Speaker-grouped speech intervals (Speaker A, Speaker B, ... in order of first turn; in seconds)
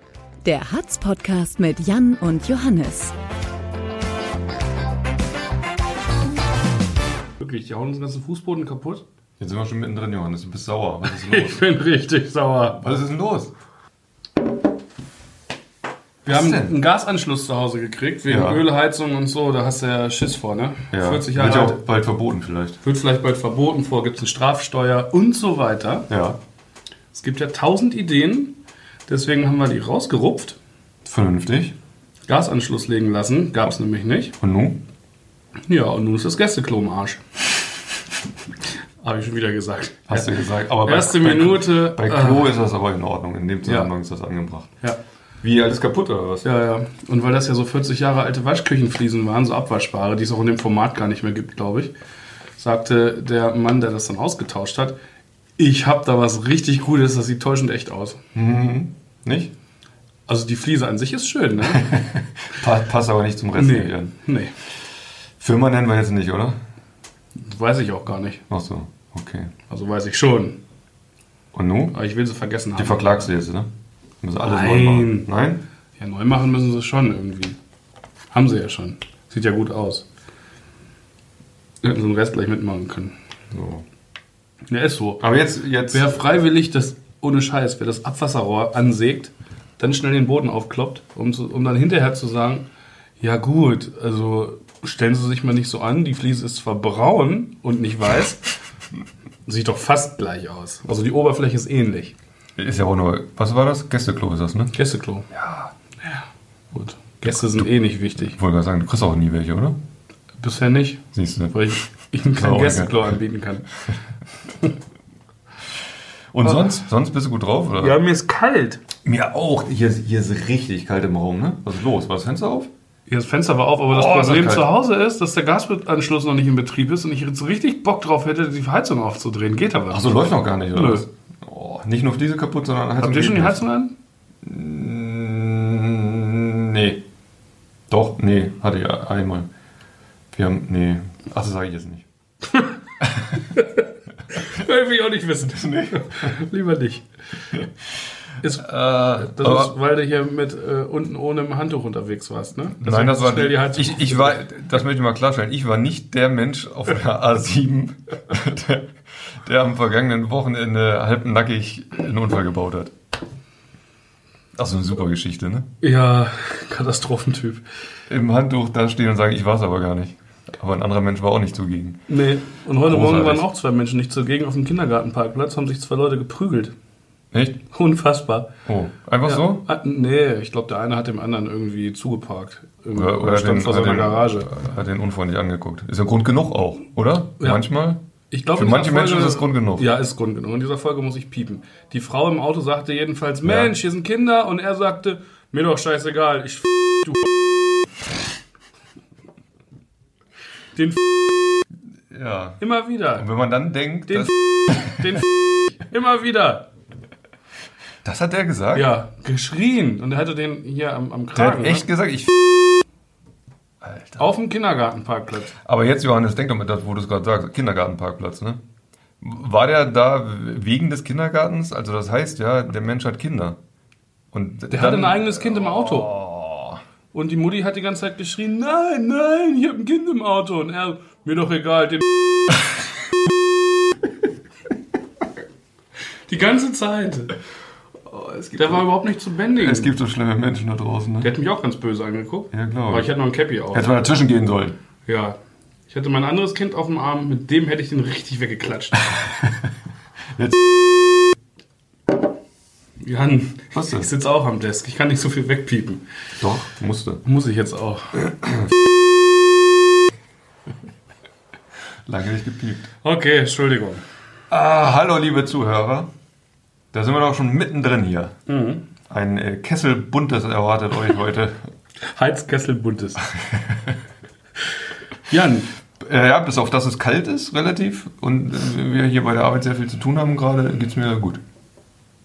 Speaker A: 0.4-3.1
Speaker B: 7.4-9.0, 11.0-12.8, 16.2-21.8, 22.8-26.1, 27.1-28.6, 29.1-30.6, 32.3-34.4, 35.7-37.2, 39.0-42.5, 43.6-43.9, 46.4-51.9, 52.6-55.0, 55.6-58.2, 60.3-61.9, 63.5-64.5, 67.4-68.4, 69.7-70.6, 71.9-73.3, 74.4-75.3, 76.0-77.6, 78.3-80.0, 81.8-83.1, 84.7-85.2, 85.9-92.7, 93.2-98.5, 99.5-102.1, 104.7-105.3, 106.0-108.4, 110.4-113.7, 117.8-118.8, 123.1-130.2, 130.7-131.0, 133.0-133.9, 142.5-142.7, 143.5-147.0, 148.4-154.4, 165.8-167.6, 172.1-176.7, 177.7-178.5, 179.2-184.5, 188.3-197.5, 200.7-201.6, 202.6-203.3, 204.1-206.7, 208.7-211.8, 214.2-215.5, 224.7-226.1, 227.1-232.1, 236.3-237.3, 238.6-239.9, 241.2-244.2, 245.1-245.3, 245.9-249.2, 253.0-256.0, 257.2-258.5, 263.0-264.0, 268.5-268.8, 272.0-273.3, 275.3-275.7
Speaker C: 9.4-11.7, 12.7-13.5, 16.2-16.7, 18.3-18.6, 20.9-22.8, 26.1-26.4, 31.0-31.8, 34.4-34.8, 40.1-44.7, 45.4-46.5, 58.3-59.5, 61.6-64.1, 65.4-66.6, 68.5-69.5, 71.5-71.9, 72.8-73.7, 74.2-75.6, 83.5-83.8, 85.2-86.2, 102.6-104.7, 105.3-105.7, 107.3-107.7, 108.2-109.8, 111.1-113.1, 116.3-118.0, 119.0-122.7, 123.9-124.7, 129.9-133.6, 134.4-137.0, 137.9-139.5, 140.3-142.1, 143.0-143.4, 145.6-146.4, 148.6-149.7, 152.8-162.9, 164.5-165.7, 168.1-172.1, 172.8-173.4, 177.3-177.6, 178.6-179.6, 182.9-188.0, 188.5-189.9, 193.4-193.7, 202.1-202.6, 203.2-205.1, 208.0-208.9, 211.3-212.8, 213.8-214.2, 215.6-218.6, 219.2-223.6, 224.3-226.8, 238.0-238.9, 239.5-241.3, 242.5-243.1, 243.7-244.8, 249.1-249.7, 250.3-250.6, 253.7-254.1, 256.4-257.2, 258.4-258.7, 262.1-262.9, 264.5-266.1, 266.9-268.4, 269.1-271.6, 273.3-273.9, 276.0-281.4